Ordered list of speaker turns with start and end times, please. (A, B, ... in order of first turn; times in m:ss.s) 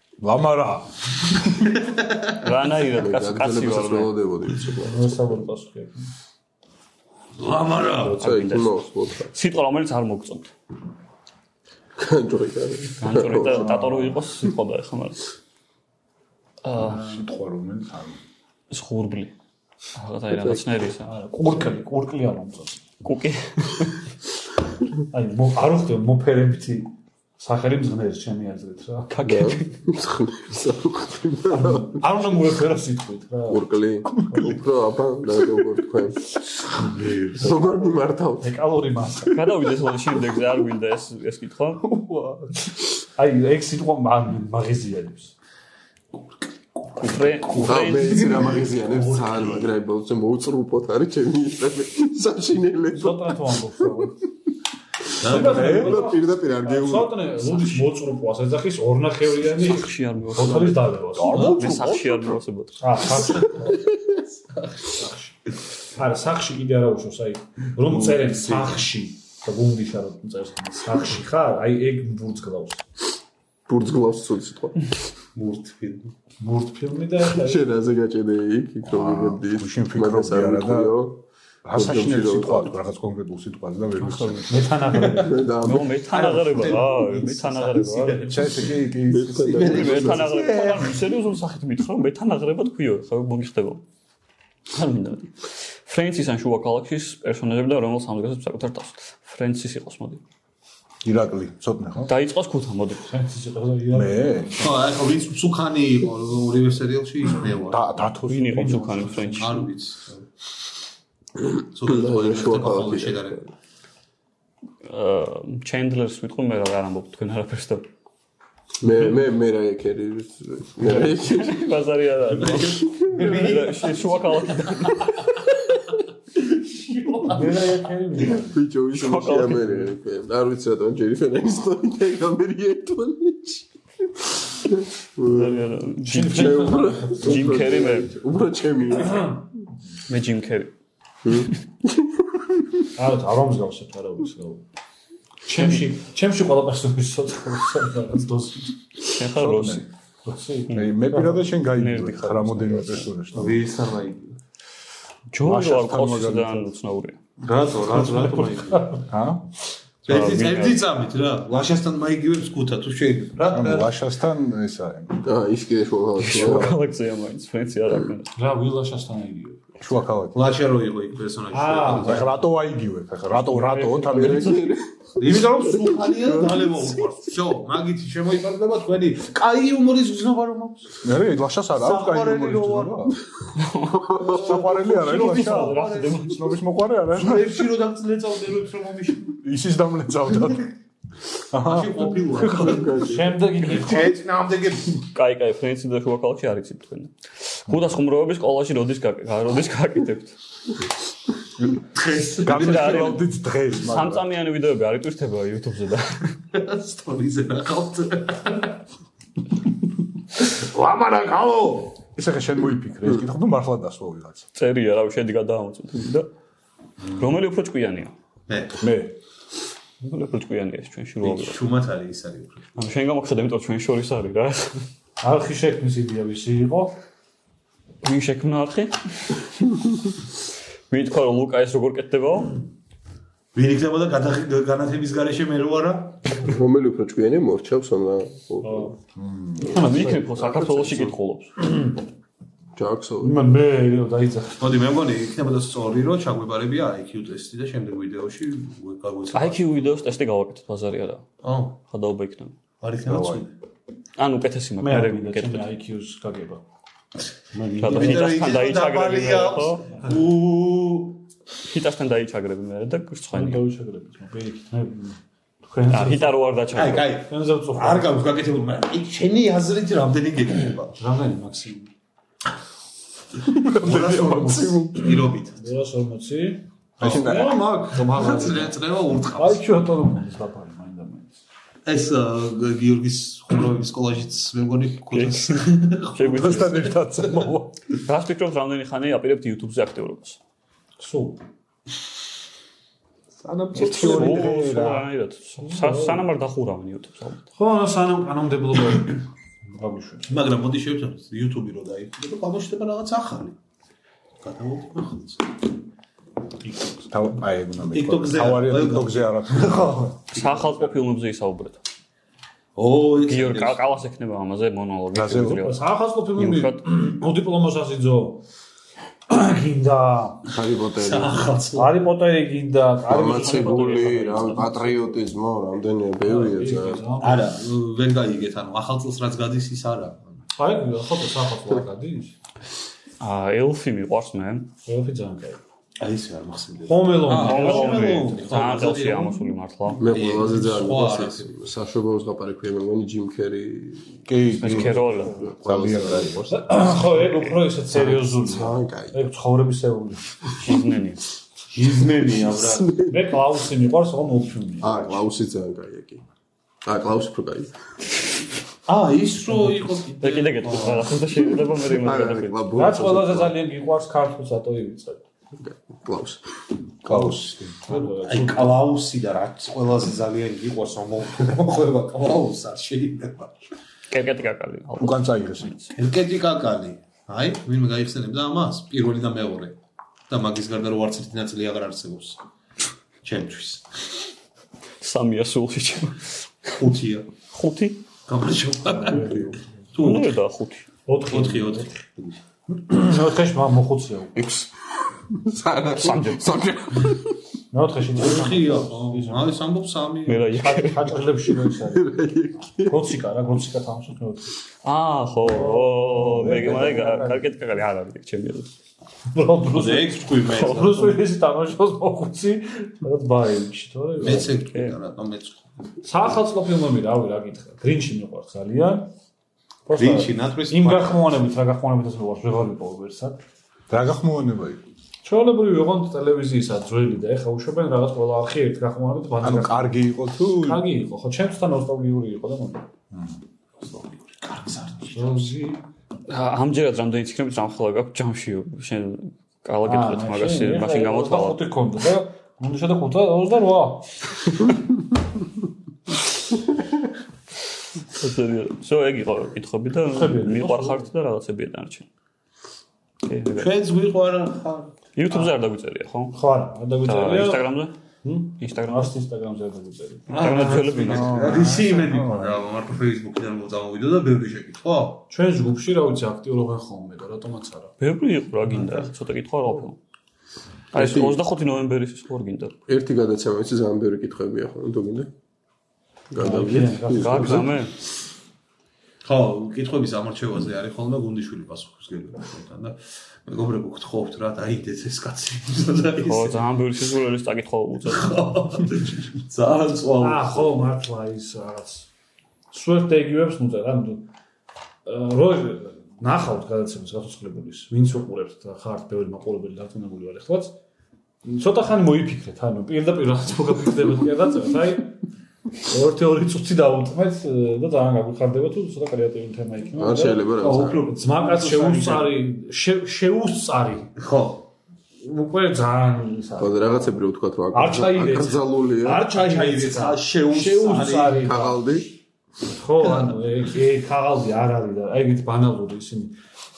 0:00.2-0:01.7 A
0:01.7-0:02.2 B
0:02.4-0:04.1 C
0:02.8-0:05.2 D
0:04.7-0:06.1 E
0:07.4-0:08.2 B
0:08.0-0:10.5 C
0:08.1-0:09.3 D
0:12.0-0:13.8 D
0:13.0-0:15.2 C
0:13.5-0:14.2 A
0:16.6-0:17.2 C
0:16.8-0:18.2 A
0:18.7-0:19.3 C
0:20.0-0:21.1 C
0:20.3-0:20.7 D
0:21.0-0:22.8 E
0:23.0-0:24.0 C
0:25.1-0:29.2 E
0:29.1-0:29.8 C
0:29.2-0:32.0 D
0:31.5-0:34.6 E
0:33.5-0:36.3 D
0:36.8-0:37.6 E
0:37.3-0:38.5 D
0:38.4-0:39.6 E
0:39.3-0:41.8 C
0:43.2-0:45.3 E
0:46.8-0:48.6 B
0:47.0-0:48.4 C
0:47.6-0:54.0 D
0:49.0-0:49.2 E
0:52.9-0:54.1 E
0:55.2-0:55.8 B
0:55.2-1:01.8 E
0:55.3-0:57.1 D
0:55.3-0:56.1 A
0:57.4-0:57.9 C
0:59.4-1:02.9 C
1:01.1-1:01.8 A
1:02.8-1:03.9 E
1:03.3-1:03.6 B
1:04.8-1:12.8 E
1:08.2-1:08.8 B
1:13.7-1:14.8 D
1:15.3-1:16.1 B
1:16.4-1:17.7 E
1:17.2-1:21.2 D
1:18.8-1:21.0 A
1:21.6-1:24.6 A
1:21.7-1:22.7 D
1:24.0-1:25.0 C
1:24.5-1:25.4 E
1:24.9-1:25.3 B
1:25.1-1:26.0 D
1:25.6-1:28.4 C
1:26.1-1:31.0 B
1:28.3-1:30.1 A
1:29.1-1:30.3 D
1:29.6-1:33.8 C
1:34.7-1:40.2 C
1:41.0-1:42.1 A
1:42.0-1:43.0 C
1:43.0-1:44.7 E
1:43.9-1:44.5 A
1:44.6-1:48.0 B
1:47.7-1:49.1 A
1:48.3-1:49.6 C
1:48.6-1:49.6 E
1:49.4-1:50.2 B
1:51.4-1:53.4 D
1:51.7-1:53.4 B
1:54.8-1:57.9 C
1:58.8-2:01.7 D
2:00.8-2:05.2 C
2:02.3-2:05.1 B
2:03.2-2:03.4 D
2:06.7-2:08.6 E
2:08.2-2:13.6 D
2:08.9-2:09.9 C
2:14.6-2:19.4 D
2:15.3-2:18.1 C
2:16.0-2:17.6 E
2:19.0-2:19.3 E
2:20.1-2:20.7 C
2:21.2-2:22.4 D
2:23.0-2:24.6 E
2:25.4-2:28.8 E
2:29.1-2:29.8 C
2:29.3-2:29.8 A
2:30.2-2:31.4 E
2:30.7-2:33.6 A
2:31.6-2:33.1 C
2:33.3-2:34.3 B
2:35.3-2:37.2 C
2:35.4-2:36.7 A
2:37.4-2:39.0 B
2:37.9-2:39.0 E
2:39.1-2:39.4 A
2:40.0-2:43.9 B
2:40.0-2:40.8 C
2:43.5-2:45.2 A
2:45.2-2:46.7 D
2:46.2-2:48.3 C
2:46.2-2:46.8 A
2:48.4-2:49.6 E
2:49.8-2:50.3 A
2:50.3-2:52.4 B
2:51.5-2:52.4 E
2:51.9-2:54.7 A
2:53.6-2:54.1 E
2:54.1-2:57.2 D
2:55.2-3:01.0 B
3:01.0-3:03.2 A
3:01.8-3:03.1 B
3:03.6-3:06.5 C
3:04.0-3:04.5 D
3:04.3-3:07.7 A
3:04.4-3:06.3 B
3:07.1-3:09.4 B
3:09.4-3:10.7 A
3:11.5-3:12.9 A
3:11.6-3:12.9 B
3:12.5-3:13.4 D
3:12.9-3:14.2 E
3:13.6-3:15.0 B
3:15.1-3:20.4 C
3:21.9-3:23.1 B
3:22.4-3:24.2 A
3:22.5-3:26.3 C
3:26.5-3:28.7 B
3:30.4-3:32.0 B
3:32.2-3:34.4 A
3:34.5-3:36.3 C
3:37.1-3:38.1 C
3:38.5-3:38.8 B
3:38.8-3:39.1 A
3:40.0-3:41.6 C
3:41.2-3:42.7 B
3:42.7-3:44.8 C
3:45.2-3:46.9 E
3:48.0-3:49.3 C
3:50.9-3:52.6 C
3:53.5-3:56.3 B
3:56.4-3:58.9 D
3:58.6-3:58.9 E
3:59.2-3:59.7 A
3:59.6-4:00.3 E
3:59.6-4:01.5 C
4:00.3-4:01.1 D
4:01.6-4:02.0 E
4:02.8-4:03.4 D
4:03.2-4:04.6 E
4:04.6-4:09.7 B
4:09.3-4:11.2 C
4:11.4-4:11.8 B
4:11.8-4:12.5 C
4:12.8-4:13.5 B
4:13.0-4:13.4 A
4:14.2-4:15.7 C
4:14.8-4:16.6 E
4:17.5-4:18.3 E
4:17.8-4:19.9 C
4:17.8-4:21.2 B
4:21.6-4:23.6 C
4:23.3-4:26.4 E
4:25.9-4:27.1 C
4:26.7-4:31.0 B
4:27.3-4:28.1 E
4:31.0-4:31.9 E
4:33.5-4:35.3 A
4:33.6-4:35.6 B
4:35.5-4:41.3 E
4:37.0-4:37.6 A
4:37.0-4:37.6 D
4:38.0-4:39.6 B
4:41.8-4:47.0 B
4:45.1-4:47.0 C
4:46.3-4:47.8 A
4:48.0-4:50.4 C
4:51.0-4:51.4 E
4:53.4-4:54.4 B
4:53.7-4:55.1 A
4:53.8-4:57.4 C
4:55.6-4:56.2 E
4:57.6-5:00.5 E
5:00.3-5:03.6 B
5:04.4-5:05.5 B
5:06.6-5:07.0 E
5:07.1-5:10.1 A
5:07.9-5:11.0 B
5:10.3-5:11.8 C
5:12.8-5:14.0 B
5:13.2-5:15.8 C
5:15.1-5:15.7 A
5:15.6-5:18.4 E
5:16.3-5:16.8 C
5:19.3-5:20.5 E
5:20.5-5:21.5 D
5:21.0-5:21.9 B
5:21.7-5:25.1 E
5:23.0-5:27.0 D
5:23.3-5:24.8 C
5:26.2-5:27.5 E
5:27.2-5:30.4 B
5:30.6-5:32.3 E
5:33.2-5:34.7 C
5:34.8-5:35.6 E
5:36.0-5:39.4 B
5:36.9-5:38.5 E
5:37.3-5:40.1 C
5:40.0-5:46.6 D
5:40.1-5:41.5 B
5:44.3-5:46.6 A
5:44.6-5:45.4 C
5:46.5-5:50.5 E
5:47.9-5:49.2 D
5:50.6-5:51.2 C
5:51.7-5:52.9 B
5:52.5-5:53.3 D
5:53.1-5:55.2 E
5:54.8-5:56.2 D
5:56.8-5:57.7 D
5:58.8-6:01.1 B
5:59.5-5:59.9 E
6:00.2-6:02.6 C
6:01.4-6:03.6 D
6:02.7-6:05.2 E
6:05.6-6:06.4 D
6:07.0-6:07.8 A
6:07.1-6:08.8 E
6:07.9-6:13.6 B
6:14.1-6:15.9 C
6:15.0-6:15.7 A
6:16.0-6:19.8 B
6:20.3-6:22.4 B
6:23.2-6:23.9 B
6:25.0-6:26.7 C
6:26.8-6:27.3 B
6:27.5-6:28.0 C
6:28.3-6:30.3 B
6:28.9-6:29.6 E
6:30.0-6:30.9 C
6:31.0-6:32.0 E
6:31.3-6:32.4 B
6:32.7-6:34.3 E
6:34.3-6:37.4 D
6:36.0-6:36.6 C
6:37.7-6:39.5 E
6:38.2-6:40.6 B
6:40.3-6:41.1 C
6:40.6-6:42.1 E
6:41.6-6:43.1 D
6:42.8-6:44.5 E
6:44.8-6:48.7 C
6:45.4-6:47.4 E
6:46.2-6:47.4 A
6:49.3-6:54.6 E
6:49.7-6:51.2 B
6:50.5-6:50.8 C
6:54.2-6:55.7 B
6:56.0-6:59.1 E
6:59.8-7:03.4 E
6:59.9-7:01.2 B
7:03.9-7:04.8 A
7:05.2-7:10.0 E
7:09.4-7:10.8 A
7:10.5-7:12.8 E
7:13.8-7:14.1 E
7:14.4-7:15.4 B
7:15.1-7:15.8 E
7:16.3-7:21.6 C
7:19.8-7:24.1 E
7:28.2-7:32.0 C
7:30.1-7:31.1 E
7:33.2-7:33.7 C
7:33.6-7:34.9 B
7:35.1-7:36.4 C
7:36.3-7:37.7 E
7:37.0-7:37.9 C
7:38.2-7:41.0 E
7:38.6-7:39.1 C
7:40.3-7:45.2 B
7:40.4-7:41.3 C
7:41.1-7:42.6 A
7:45.3-7:47.9 E
7:48.0-7:50.0 C
7:50.9-7:52.8 C
7:50.9-7:51.4 D
7:52.9-7:55.3 D
7:56.3-7:57.7 D
7:56.4-7:57.7 E
7:57.1-7:57.9 C
7:59.2-8:06.6 B
8:06.2-8:08.3 C
8:08.0-8:10.8 B
8:10.2-8:12.1 E
8:12.7-8:14.3 E
8:15.0-8:20.8 E
8:21.4-8:25.2 E
8:25.8-8:34.1 E
8:30.0-8:31.0 D
8:30.6-8:32.3 B
8:34.2-8:34.7 B
8:35.2-8:37.1 E
8:36.6-8:39.2 D
8:37.7-8:42.0 E
8:39.2-8:41.5 B
8:41.4-8:42.1 D
8:42.6-8:46.4 E
8:43.0-8:43.4 B